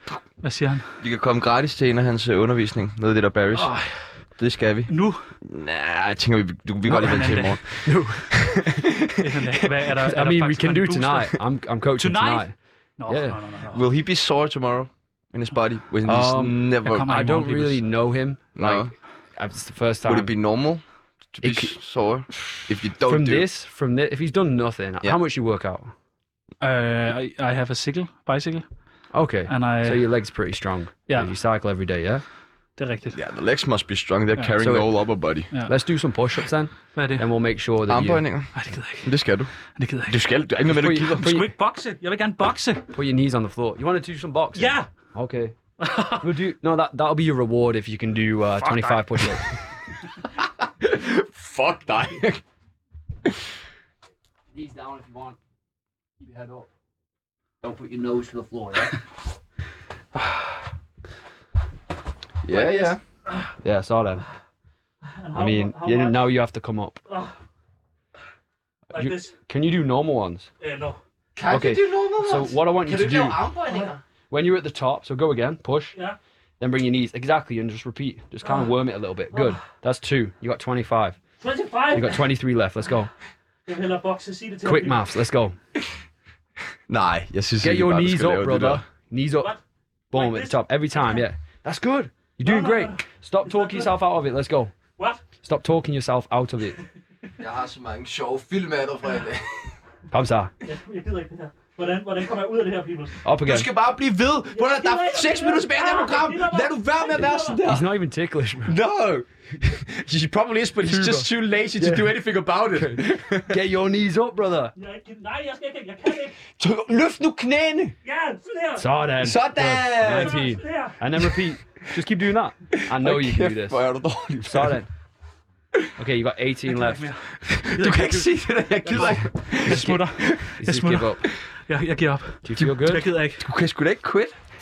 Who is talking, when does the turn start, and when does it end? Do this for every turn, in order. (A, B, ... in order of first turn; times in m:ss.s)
0:00.4-0:00.9 A
0:01.0-0:03.8 B
0:03.5-0:04.2 A
0:04.4-0:09.6 B
0:04.9-0:05.2 A
0:06.8-0:07.7 A
0:07.8-0:08.6 C
0:09.2-0:11.4 A
0:10.0-0:12.5 C
0:12.0-0:13.8 A
0:13.1-0:13.4 C
0:13.7-0:17.2 B
0:16.0-0:20.3 C
0:16.8-0:17.8 A
0:18.5-0:18.9 B
0:20.0-0:23.5 B
0:21.4-0:21.8 C
0:22.3-0:25.9 C
0:26.6-0:28.6 A
0:29.1-0:32.2 C
0:29.5-0:30.1 A
0:32.8-0:33.2 A
0:33.1-0:35.5 B
0:34.6-0:38.2 C
0:36.9-0:37.3 A
0:37.9-0:39.5 B
0:38.5-0:39.1 A
0:39.8-0:40.2 A
0:40.1-0:41.4 B
0:40.7-0:41.5 C
0:41.0-0:42.9 A
0:42.9-0:45.6 C
0:44.5-0:44.9 A
0:45.8-0:46.2 A
0:46.2-0:49.5 C
0:48.6-0:49.5 A
0:50.4-0:52.4 B
0:54.5-0:55.4 C
0:56.2-0:56.7 C
0:57.6-0:59.0 C
1:02.4-1:03.0 B
1:02.5-1:03.5 A
1:03.6-1:04.2 C
1:05.1-1:06.3 A
1:05.3-1:07.0 C
1:07.1-1:07.3 A
1:08.9-1:09.3 A
1:08.9-1:10.5 C
1:10.6-1:11.0 A
1:11.4-1:14.0 B
1:11.5-1:13.4 C
1:14.3-1:15.9 C
1:16.6-1:21.2 C
1:21.4-1:22.3 A
1:21.9-1:23.1 C
1:23.6-1:25.0 A
1:24.6-1:25.6 C
1:26.9-1:28.8 B
1:27.6-1:29.5 C
1:30.1-1:34.7 C
1:30.1-1:31.2 A
1:32.4-1:33.9 A
1:35.4-1:36.8 C
1:37.4-1:39.8 B
1:40.1-1:40.5 C
1:40.6-1:43.2 A
1:43.2-1:43.7 C
1:43.4-1:47.8 B
1:44.5-1:47.7 A
1:47.6-1:48.8 C
1:48.6-1:53.6 B
1:50.8-1:52.2 C
1:52.7-1:54.7 C
1:54.8-1:56.4 A
1:56.4-1:57.9 B
1:58.0-1:59.0 A
1:58.8-2:03.8 C
1:59.2-2:00.4 B
2:00.0-2:01.2 A
2:02.7-2:04.8 B
2:04.4-2:04.9 C
2:06.0-2:07.0 C
2:06.6-2:13.4 A
2:07.4-2:10.5 B
2:08.9-2:11.2 C
2:12.4-2:13.0 C
2:13.4-2:14.4 B